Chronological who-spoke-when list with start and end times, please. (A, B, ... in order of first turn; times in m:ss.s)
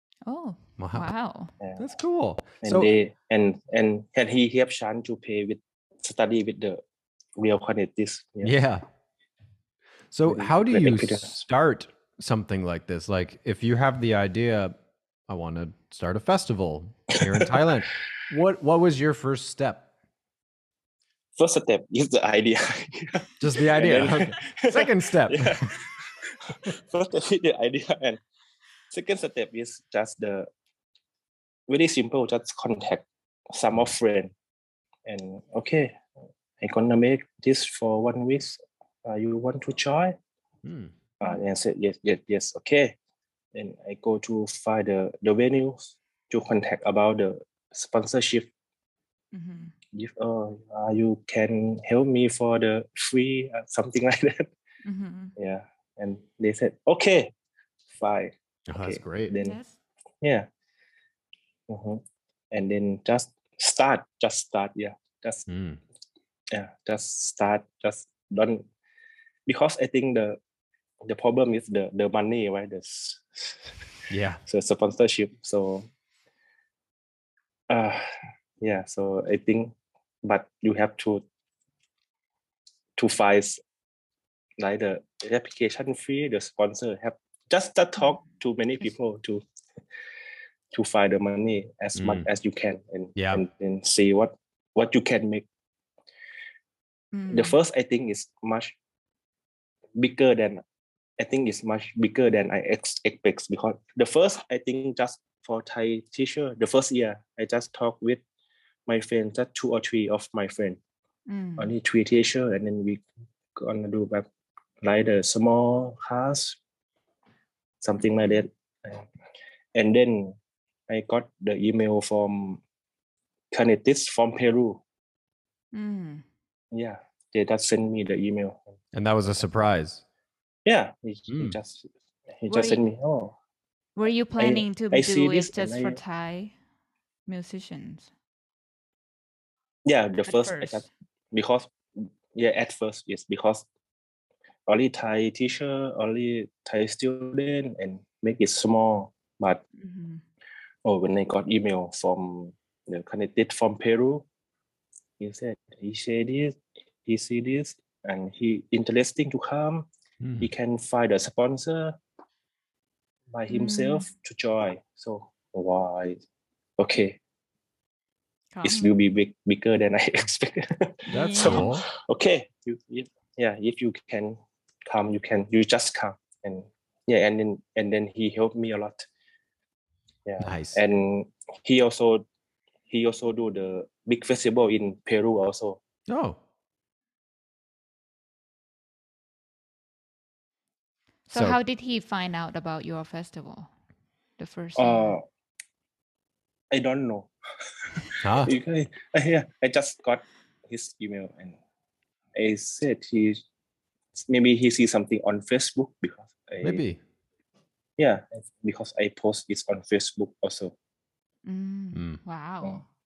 0:00.2-0:01.5 A
0:00.8-0:01.1 B
0:01.6-0:01.8 C
0:01.8-0:02.9 B
0:02.6-0:06.8 C
0:07.4-0:08.5 C
0:08.4-0:08.8 B
0:10.1-0:14.7 B
0:10.2-0:11.4 C
0:15.3-0:19.9 B
0:17.2-0:17.5 C
0:21.4-0:28.2 C
0:23.4-0:25.7 B
0:28.9-0:30.5 C
0:31.7-0:34.3 C
0:35.0-0:36.0 C
0:36.6-0:40.2 C
0:40.6-0:40.9 B
0:41.2-0:42.9 C
0:43.5-0:48.5 C
0:49.3-0:49.7 A
0:49.9-0:54.5 C
0:54.8-0:55.3 A
0:55.4-0:57.3 C
0:57.9-0:59.6 C
0:58.7-0:59.3 B
0:59.4-0:59.8 A
1:00.2-1:00.5 C
1:01.7-1:05.5 C
1:05.5-1:05.8 B
1:06.5-1:08.6 C
1:09.4-1:10.4 C
1:11.0-1:13.8 C
1:14.1-1:14.4 B
1:14.4-1:15.9 C
1:17.7-1:18.0 C
1:18.6-1:21.2 C
1:23.0-1:23.6 C
1:24.6-1:29.4 C
1:30.7-1:35.4 C
1:32.0-1:32.3 B
1:33.2-1:33.4 B
1:37.1-1:37.6 A
1:37.3-1:38.7 C
1:40.0-1:40.6 C
1:41.2-1:48.2 C
1:48.9-1:50.8 C
1:51.3-1:51.7 A
1:51.6-1:54.2 C
1:54.8-1:56.6 C
1:57.8-1:59.0 C
1:59.7-2:00.4 C
2:00.9-2:02.6 C
2:03.5-2:04.8 C
2:05.7-2:06.2 A
2:06.7-2:08.7 C
2:08.9-2:10.0 B
2:10.6-2:13.4 C
2:11.3-2:11.6 B
2:12.5-2:12.8 A
2:14.0-2:16.5 A
2:14.4-2:16.0 C
2:17.3-2:18.1 A
2:19.8-2:23.6 C
2:20.2-2:20.9 A
2:24.7-2:29.6 C
2:29.8-2:30.2 A
2:30.8-2:34.2 C
2:35.2-2:39.9 C
2:40.2-2:40.5 B
2:40.4-2:42.0 C
2:43.3-2:46.2 C
2:43.5-2:44.1 A
2:46.8-2:47.2 C
2:48.5-2:48.9 A
2:48.6-2:59.0 C
2:51.1-2:51.7 A
2:51.1-2:51.8 B
3:00.2-3:02.2 C
3:00.4-3:00.8 B
3:02.9-3:05.8 C
3:06.1-3:06.4 B
3:11.3-3:13.7 A
3:14.4-3:15.2 A
3:14.8-3:15.2 C
3:16.7-3:17.3 C
3:17.8-3:21.6 C
3:18.2-3:18.5 B
3:22.3-3:23.4 C
3:24.1-3:26.8 C
3:26.6-3:27.0 B
3:28.0-3:30.7 C
3:31.4-3:32.8 A
3:31.9-3:32.2 B